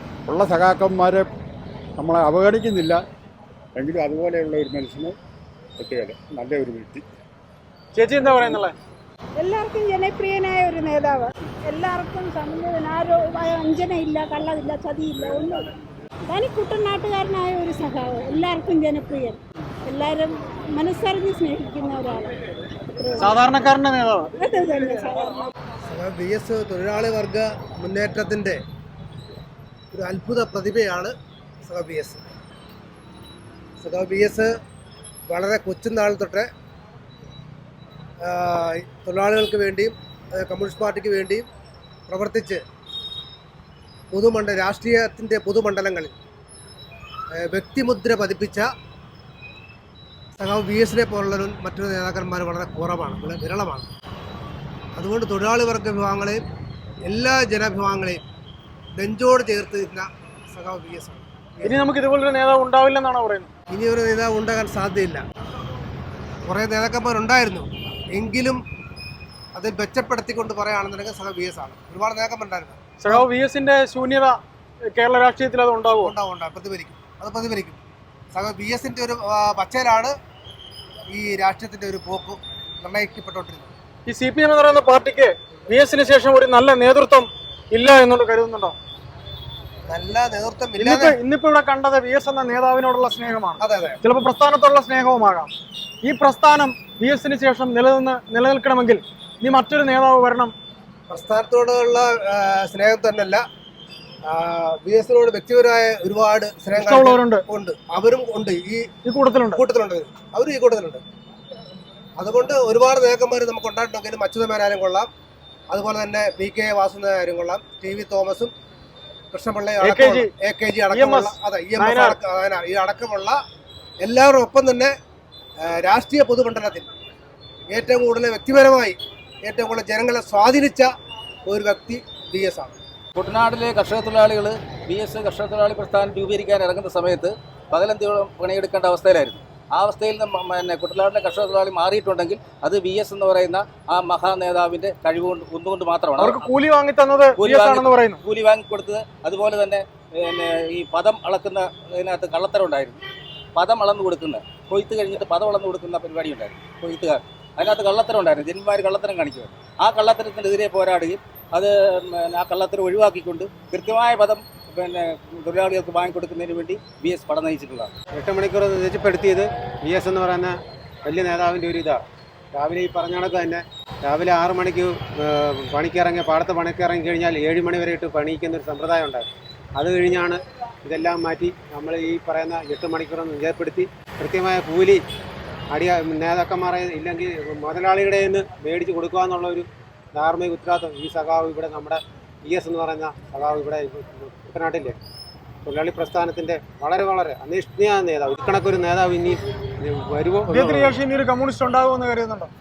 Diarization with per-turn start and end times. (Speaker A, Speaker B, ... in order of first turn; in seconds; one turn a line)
Speaker A: 0.3-1.2
Speaker A: 2.0-3.0
Speaker A: 3.8-5.1
Speaker A: 5.8-7.0
Speaker B: 7.9-8.8
Speaker C: 9.4-15.7
Speaker C: 16.3-22.4
Speaker C: 22.9-23.4
Speaker B: 23.2-24.3
Speaker C: 24.4-25.5
Speaker D: 25.9-28.6
Speaker D: 29.9-31.1
Speaker D: 31.6-32.2
Speaker D: 33.8-34.5
Speaker D: 35.3-36.5
Speaker D: 38.2-41.5
Speaker D: 42.1-42.6
Speaker D: 44.1-46.1
Speaker D: 47.4-48.7
Speaker D: 50.4-53.9
Speaker D: 55.0-56.4
Speaker D: 57.1-58.2
Speaker D: 59.0-61.9
Speaker B: 61.6-63.5
Speaker D: 63.7-65.2
Speaker D: 66.5-68.6
Speaker D: 69.5-73.2
Speaker B: 73.0-74.4
Speaker B: 74.9-76.1
Speaker D: 76.0-77.8
Speaker D: 78.3-80.1
Speaker D: 81.1-83.7
Speaker B: 84.1-88.8
Speaker D: 89.9-91.2
Speaker B: 90.8-95.5
Speaker D: 93.6-94.0
Speaker B: 96.0-100.5
Speaker D: 101.1-103.4
Speaker D: 104.3-108.9
Speaker B: 106.7-107.4
Speaker B: 109.0-109.6
Speaker D: 109.5-111.0
Speaker D: 112.2-115.1
Speaker D: 115.7-118.5
Speaker D: 119.3-123.4
Speaker B: 119.8-120.3
Speaker B: 120.9-122.2
Speaker D: 124.0-124.9
Speaker D: 125.6-126.9
Speaker D: 127.7-130.9
Speaker D: 131.5-132.8
Speaker E: 133.2-146.5
Speaker B: 146.2-148.2
Speaker E: 147.4-153.0
Speaker E: 153.6-167.9
Speaker F: 168.1-172.0
Speaker F: 172.5-185.0
Speaker F: 185.7-194.9
Speaker F: 195.6-201.0
Speaker B: 200.5-202.5